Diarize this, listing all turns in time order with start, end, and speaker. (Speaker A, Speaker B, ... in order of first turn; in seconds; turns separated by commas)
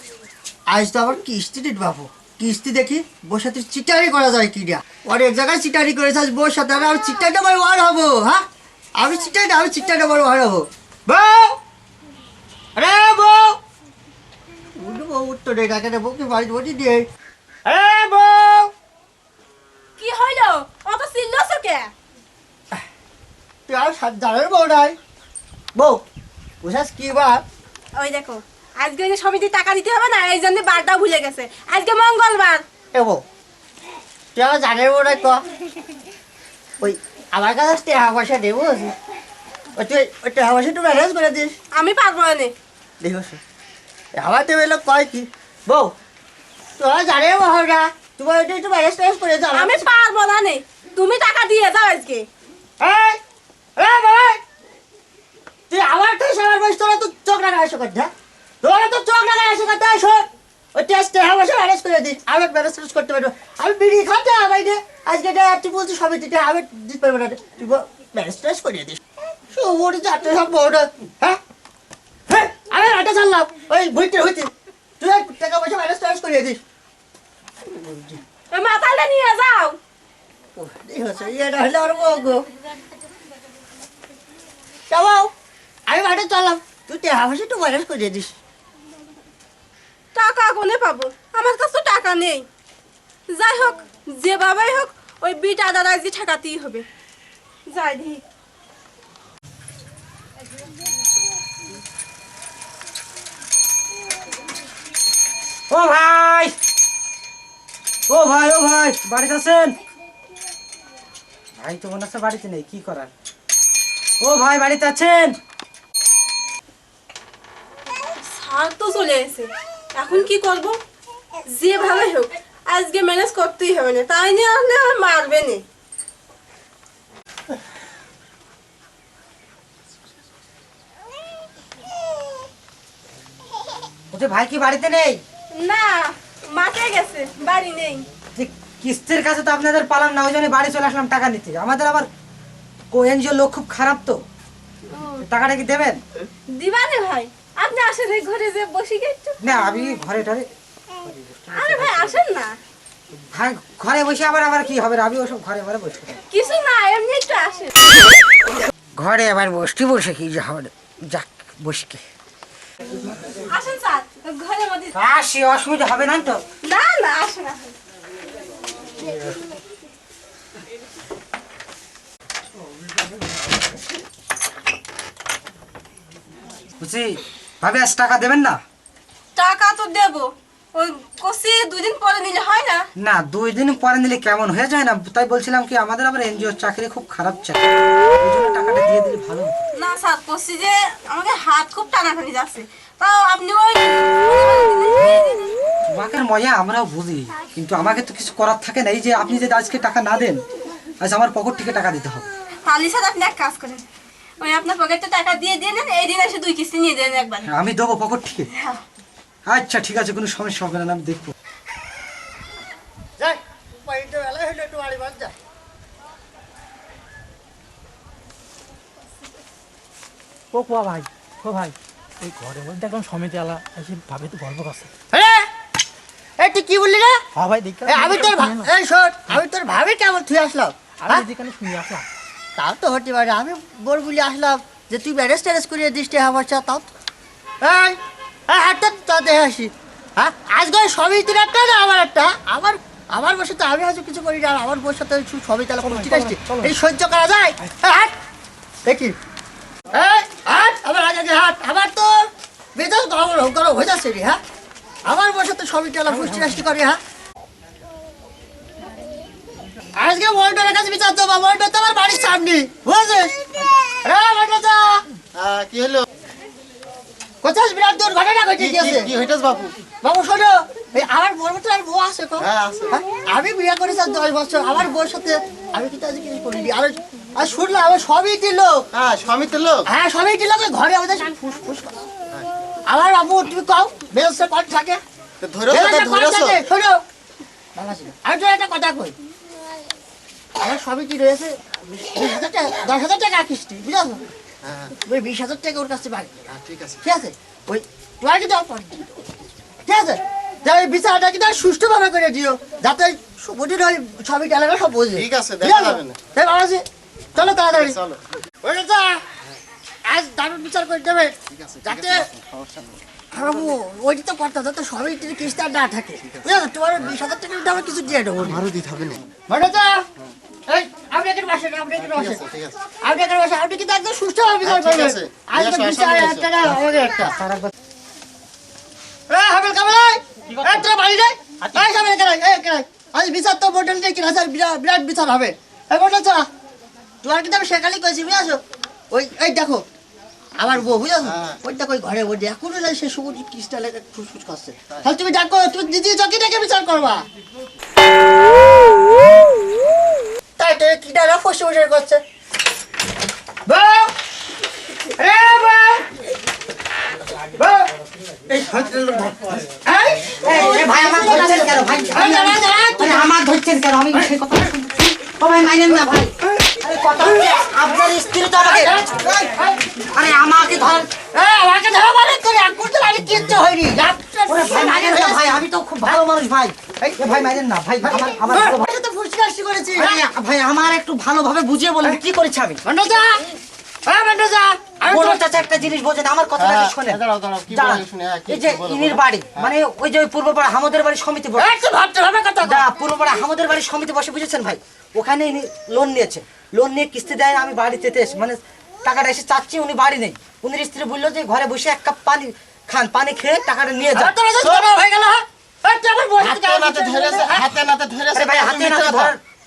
Speaker A: 0.7-8.4, Speaker A: 8.9-11.6, Speaker A: 12.8-13.6, Speaker A: 14.8-17.1, Speaker A: 17.6-18.7, Speaker B: 20.0-21.9, Speaker A: 23.7-25.0, Speaker A: 25.7-26.0, Speaker A: 26.6-27.4, Speaker B: 27.9-32.6, Speaker A: 32.9-33.2, Speaker A: 34.3-35.4, Speaker A: 36.8-38.9, Speaker A: 39.8-41.5, Speaker B: 41.7-42.5, Speaker A: 43.0-43.4, Speaker A: 44.1-45.9, Speaker A: 46.8-49.8, Speaker B: 49.5-52.3, Speaker A: 52.8-53.2, Speaker A: 53.8-54.4, Speaker A: 55.7-71.4, Speaker A: 72.3-76.6, Speaker A: 77.7-78.2, Speaker B: 78.5-79.8, Speaker A: 80.5-82.4, Speaker A: 84.9-85.3, Speaker A: 85.9-88.3, Speaker B: 90.1-92.5, Speaker B: 93.3-96.8, Speaker B: 97.7-98.2, Speaker C: 105.7-106.5, Speaker C: 108.1-109.8, Speaker C: 111.6-113.1, Speaker C: 114.2-115.3, Speaker B: 117.9-120.8, Speaker B: 121.5-125.6, Speaker C: 134.1-135.2, Speaker B: 135.5-138.1, Speaker C: 138.3-142.1, Speaker C: 142.9-144.2, Speaker B: 144.9-145.2, Speaker C: 145.2-146.0, Speaker B: 146.2-149.5, Speaker C: 149.4-150.5, Speaker C: 151.0-152.1, Speaker B: 151.5-152.6, Speaker C: 153.3-156.2, Speaker B: 156.3-158.1, Speaker C: 158.9-162.0, Speaker B: 163.5-164.9, Speaker C: 164.9-166.4, Speaker B: 166.6-167.7, Speaker C: 176.8-178.6, Speaker B: 179.3-182.9, Speaker C: 183.0-187.7, Speaker C: 188.2-189.6, Speaker B: 189.7-195.6, Speaker C: 195.9-200.4, Speaker C: 201.0-202.2, Speaker B: 202.6-203.8, Speaker B: 204.4-207.5, Speaker C: 207.4-208.5, Speaker B: 208.5-208.8, Speaker C: 209.5-211.3, Speaker A: 213.2-215.3, Speaker D: 220.5-224.9, Speaker A: 225.1-225.5, Speaker A: 226.4-227.2, Speaker D: 227.3-228.7, Speaker A: 227.8-231.3, Speaker D: 231.0-232.1, Speaker A: 232.6-236.9, Speaker A: 237.6-248.1, Speaker D: 245.8-246.7, Speaker A: 248.8-249.2, Speaker A: 249.9-254.4, Speaker A: 255.1-257.0, Speaker D: 256.1-256.6, Speaker A: 260.0-263.4, Speaker A: 264.0-265.0, Speaker E: 265.3-266.0, Speaker A: 267.4-269.1, Speaker E: 268.7-269.7, Speaker A: 270.0-278.9, Speaker E: 272.4-272.9, Speaker E: 278.9-279.9, Speaker A: 279.9-282.0, Speaker A: 282.9-285.0, Speaker E: 285.4-286.6, Speaker A: 285.7-287.0, Speaker A: 287.7-289.1, Speaker A: 290.6-294.2, Speaker A: 295.0-296.4, Speaker E: 296.6-297.0, Speaker A: 297.0-308.0, Speaker E: 305.2-306.1, Speaker A: 308.6-309.2, Speaker A: 310.1-312.3, Speaker A: 313.3-318.7, Speaker E: 318.6-319.2, Speaker A: 319.4-320.0, Speaker A: 320.7-327.4, Speaker E: 324.9-326.4, Speaker C: 327.3-327.7, Speaker A: 329.3-336.5, Speaker A: 337.2-339.8, Speaker A: 340.6-347.2, Speaker A: 350.6-352.2, Speaker A: 353.6-354.1, Speaker A: 355.1-356.1, Speaker A: 357.6-357.9, Speaker A: 358.5-363.3, Speaker C: 360.4-369.2, Speaker A: 367.2-367.6, Speaker A: 368.6-369.8, Speaker C: 369.9-371.1, Speaker A: 371.2-376.2, Speaker C: 374.5-378.8, Speaker A: 377.0-377.5, Speaker A: 378.0-380.2, Speaker C: 379.9-382.8, Speaker A: 382.8-383.4, Speaker A: 384.1-385.4, Speaker C: 385.0-391.7, Speaker E: 386.6-389.2, Speaker A: 391.6-392.9, Speaker C: 392.6-404.3, Speaker A: 404.1-407.8, Speaker E: 406.5-409.3, Speaker C: 408.3-409.4